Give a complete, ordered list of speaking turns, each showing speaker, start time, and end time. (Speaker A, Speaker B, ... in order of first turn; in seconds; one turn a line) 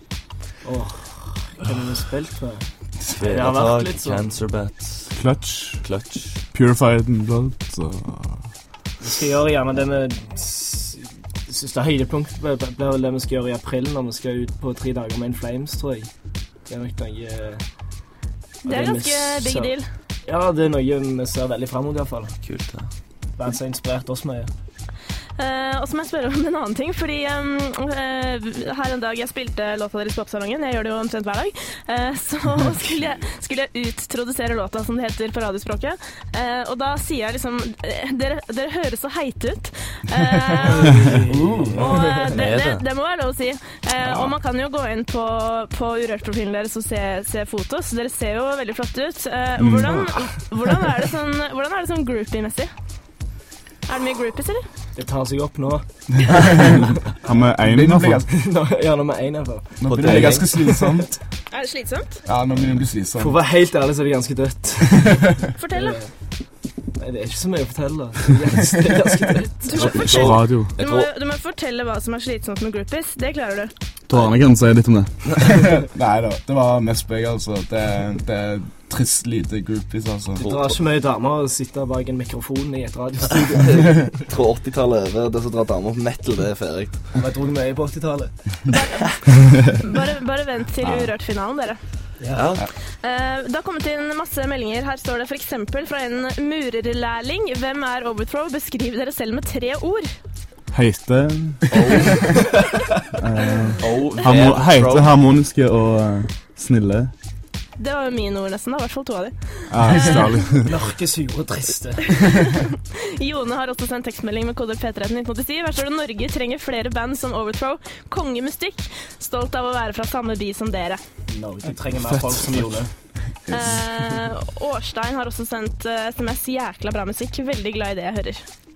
Speaker A: 0.6-4.2
Speaker B: 3.1-5.1
Speaker C: 5.1-5.8
Speaker B: 5.8-6.4
Speaker C: 6.5-8.5
Speaker A: 9.0-16.1
Speaker A: 16.7-17.7
Speaker A: 18.6-19.7
Speaker D: 18.6-19.9
Speaker A: 20.2-22.4
Speaker B: 22.4-22.9
Speaker A: 23.4-24.5
Speaker D: 25.4-41.0
Speaker A: 40.6-42.2
Speaker E: 41.3-41.9
Speaker D: 41.8-52.7
Speaker B: 42.3-42.9
Speaker C: 49.6-49.9
Speaker D: 53.9-54.7
Speaker A: 55.0-56.9
Speaker C: 57.2-58.2
Speaker E: 57.6-58.3
Speaker A: 58.3-61.1
Speaker E: 59.8-61.2
Speaker B: 60.0-60.4
Speaker D: 61.5-62.2
Speaker E: 62.2-63.4
Speaker A: 63.2-66.1
Speaker D: 65.5-66.0
Speaker A: 67.0-70.1
Speaker D: 69.6-73.7
Speaker B: 69.8-71.1
Speaker C: 69.8-70.7
Speaker C: 74.1-75.2
Speaker E: 75.5-80.4
Speaker A: 80.4-84.1
Speaker B: 80.4-80.8
Speaker B: 83.6-87.2
Speaker A: 87.1-88.7
Speaker D: 88.7-91.8
Speaker A: 92.2-92.5
Speaker B: 92.3-92.7
Speaker D: 92.9-100.1
Speaker C: 100.7-102.1
Speaker B: 101.7-102.1
Speaker C: 103.2-107.1
Speaker B: 103.8-105.1
Speaker D: 107.8-110.2
Speaker C: 109.7-110.7
Speaker A: 110.6-112.3
Speaker D: 112.2-121.0
Speaker A: 121.3-122.9
Speaker D: 123.5-128.4